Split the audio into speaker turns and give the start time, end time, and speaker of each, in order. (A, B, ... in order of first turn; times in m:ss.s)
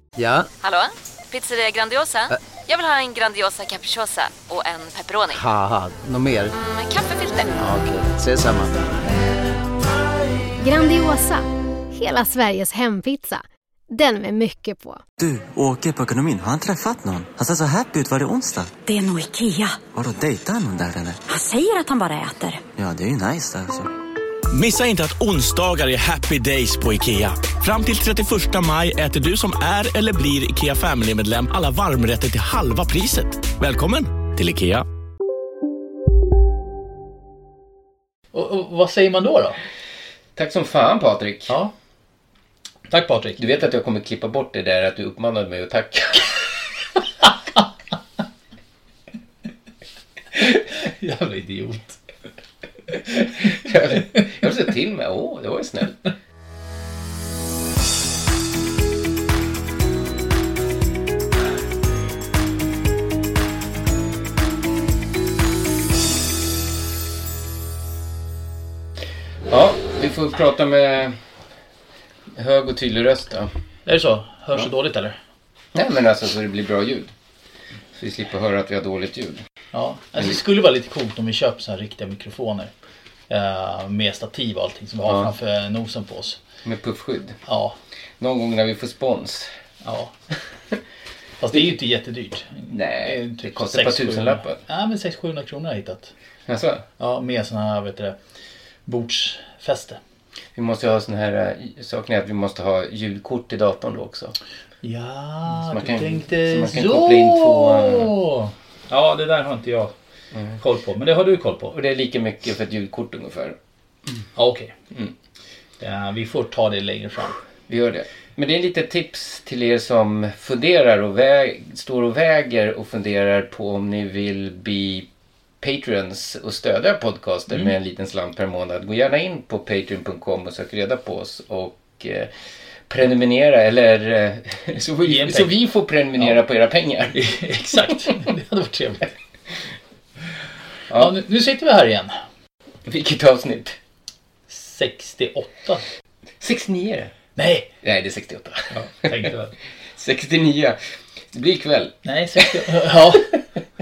0:00.2-0:00.5 A
0:00.6-0:05.4 B
0:05.3-0:06.5 A
0:06.6-0:07.6 B
0:07.5-0:09.0 A
0:10.6-0:15.0 C
0:15.2-0:18.7 D
0:18.8-0:19.8 E
0:19.8-0:21.2 D
0:21.3-0:22.6 E
0:22.8-0:23.9 D
0:24.5-0:34.8 F
0:38.3-0:39.6 G
0:40.4-0:41.6 H
0:42.9-0:43.4 G
0:43.4-0:46.4 H
0:50.4-0:52.0 G
0:53.4-0:56.0 H
0:53.9-0:54.2 G
1:09.4-1:11.2 H
1:12.3-1:13.5 H
1:13.8-1:15.2 G
1:15.7-1:17.1 H
1:17.9-1:19.4 H
1:19.7-1:22.7 G
1:23.3-1:26.4 G
1:25.0-1:25.3 H
1:26.6-1:27.4 H
1:27.4-1:27.8 G
1:28.2-1:29.5 H
1:29.8-1:30.1 G
1:31.4-1:36.1 G
1:32.7-1:34.6 H
1:36.5-1:36.8 H
1:37.0-1:38.1 G
1:38.9-1:40.0 G
1:40.5-1:44.3 H
1:44.8-1:49.9 G
1:45.5-1:48.1 H
1:50.6-1:51.7 G
1:51.7-1:53.6 H
1:54.3-1:54.7 G
1:55.8-1:57.4 G
1:57.7-2:05.1 H
2:05.6-2:12.3 H
2:12.9-2:17.2 H
2:15.0-2:15.6 G
2:17.1-2:19.1 G
2:20.9-2:21.1 H
2:20.9-2:22.2 G
2:22.8-2:23.8 H
2:24.5-2:25.8 G
2:26.4-2:27.1 H
2:27.4-2:27.7 G
2:27.8-2:29.3 H
2:28.7-2:29.5 G
2:29.9-2:30.8 H
2:31.3-2:32.7 H
2:32.0-2:33.4 G